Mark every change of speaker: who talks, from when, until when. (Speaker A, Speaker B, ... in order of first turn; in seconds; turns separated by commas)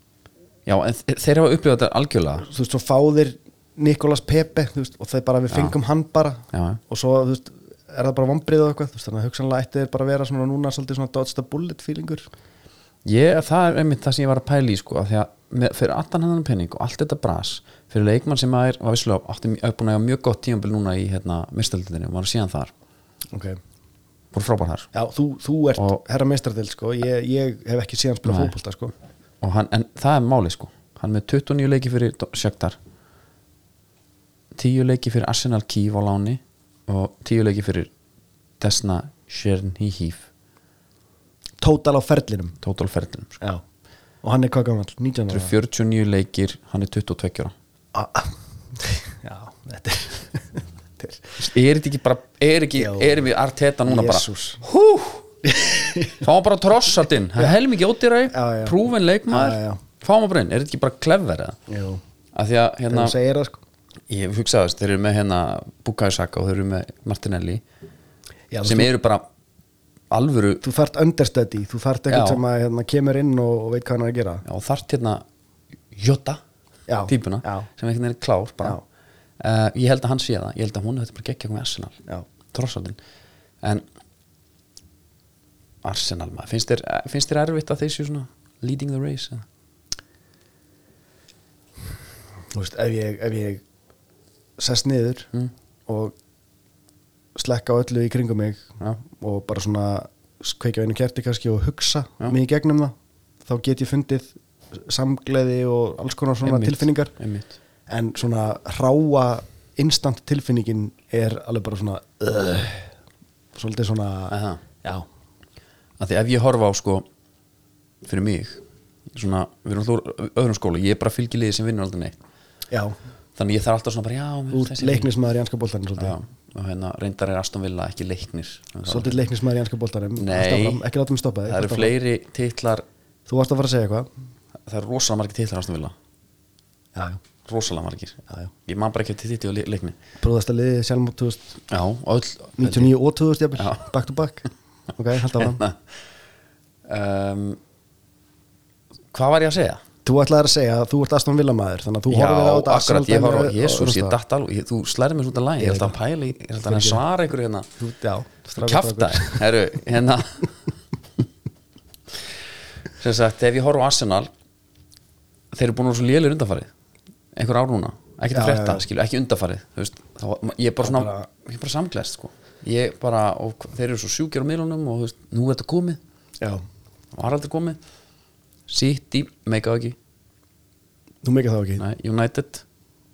Speaker A: 0.7-2.5, Speaker B: 2.4-12.3, Speaker A: 5.5-5.8, Speaker A: 6.5-6.8, Speaker A: 13.1-22.7, Speaker B: 23.3-23.6, Speaker A: 24.3-24.9, Speaker B: 24.9-28.9, Speaker A: 28.3-28.5, Speaker A: 29.4-32.8, Speaker A: 34.5-37.9, Speaker A: 38.6-40.3, Speaker B: 41.6-42.6, Speaker A: 42.6-43.4, Speaker B: 44.2-45.5, Speaker A: 45.3-47.5, Speaker B: 47.9-51.3, Speaker A: 51.4-55.2, Speaker B: 52.8-53.2, Speaker B: 53.9-54.6, Speaker B: 55.4-56.2, Speaker A: 56.2-61.6, Speaker B: 58.3-58.8, Speaker B: 59.3-59.8, Speaker B: 61.7-62.0, Speaker A: 62.3-63.1, Speaker B: 62.9-63.6, Speaker A: 64.1-67.6, Speaker B: 68.5-68.9, Speaker A: 68.6-69.3, Speaker A: 70.1-70.6, Speaker B: 70.6-74.4, Speaker A: 72.1-72.4, Speaker A: 74.5-75.2, Speaker A: 75.9-76.4, Speaker B: 76.9-77.7, Speaker A: 77.1-78.8, Speaker A: 79.4-82.0, Speaker A: 82.5-83.0, Speaker A: 85.8-89.5, Speaker B: 92.5-93.6, Speaker B: 94.6-95.3, Speaker B: 95.9-96.2, Speaker B: 97.3-102.9, Speaker B: 103.5-107.1, Speaker A: 106.4-107.6, Speaker B: 107.9-112.9, Speaker B: 113.5-115.1, Speaker A: 114.3-114.6, Speaker A: 116.0-117.1, Speaker A: 118.0-118.6, Speaker A: 119.1-122.2, Speaker B: 122.7-123.0, Speaker A: 123.4-125.1, Speaker B: 124.5-126.2, Speaker A: 126.0-129.2, Speaker B: 128.9-131.9, Speaker A: 130.2-130.8, Speaker A: 131.5-132.8, Speaker B: 133.3-134.1, Speaker A: 134.7-135.9, Speaker B: 136.9-137.2, Speaker A: 137.4-140.0, Speaker B: 140.2-141.6, Speaker A: 141.7-142.9, Speaker B: 142.6-145.6, Speaker A: 143.6-143.8, Speaker A: 145.4-145.8, Speaker A: 146.9-147.6, Speaker A: 149.1-149.8, Speaker B: 150.1-154.2, Speaker A: 152.1-157.7, Speaker B: 155.6-156.0, Speaker B: 156.6-157.0, Speaker B: 157.8-159.4, Speaker A: 158.6-160.5, Speaker A: 163.0-164.3, Speaker A: 165.5-166.7, Speaker A: 167.4-176.0, Speaker B: 168.3-168.8, Speaker B: 170.8-171.3, Speaker A: 177.1-177.8, Speaker A: 178.7-180.0, Speaker B: 181.2-181.8, Speaker A: 181.8-182.6